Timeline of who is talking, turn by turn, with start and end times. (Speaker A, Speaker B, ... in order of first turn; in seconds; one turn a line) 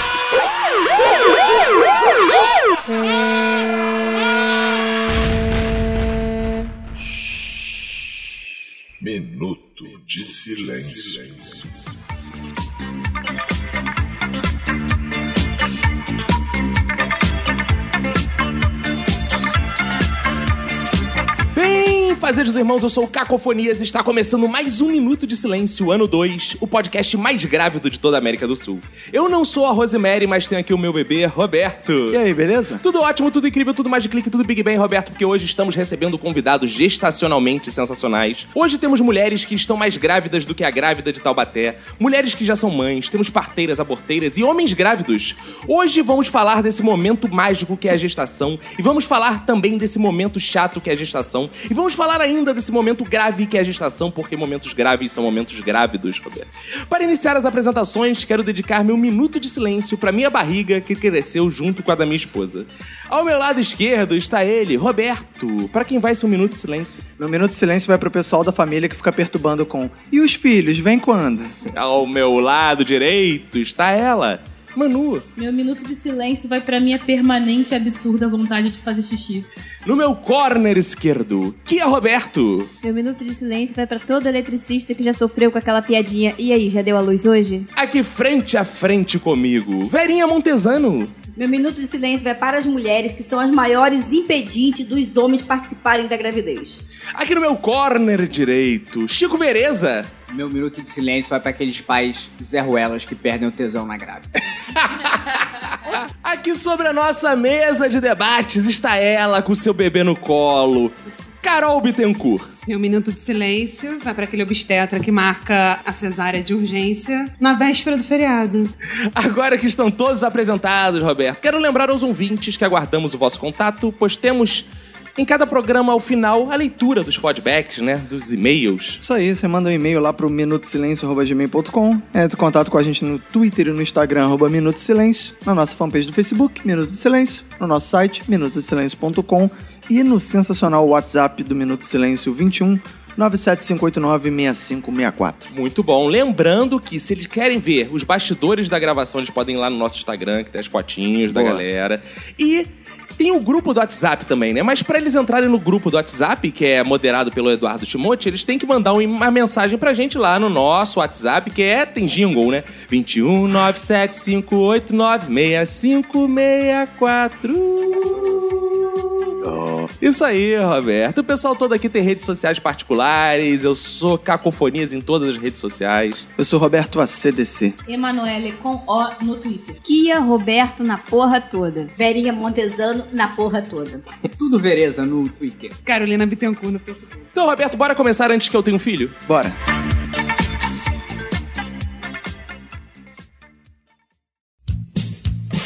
Speaker A: 9.0-11.7
Speaker B: 21.5-32.2
Speaker C: 32.1-32.8
Speaker B: 32.8-67.0
Speaker C: 67.2-71.5
Speaker B: 71.7-75.2
Speaker D: 75.4-79.5
Speaker B: 79.8-82.7
Speaker E: 82.8-87.7
Speaker B: 87.8-91.1
Speaker F: 91.4-96.8
Speaker B: 97.2-100.1
Speaker G: 100.3-104.3
Speaker B: 104.8-112.5
Speaker H: 112.7-118.7
Speaker B: 119.1-129.0
Speaker C: 129.0-145.5
Speaker B: 145.5-169.2
Speaker C: 151.3-151.6
Speaker C: 169.4-169.9
Speaker B: 170.0-176.2
Speaker C: 176.4-177.8
Speaker D: 177.9-179.8
Speaker E: 179.8-181.9
Speaker F: 182.0-184.0
Speaker G: 184.3-185.8
Speaker H: 185.8-187.3
Speaker B: 187.3-189.2
Speaker C: 189.3-189.6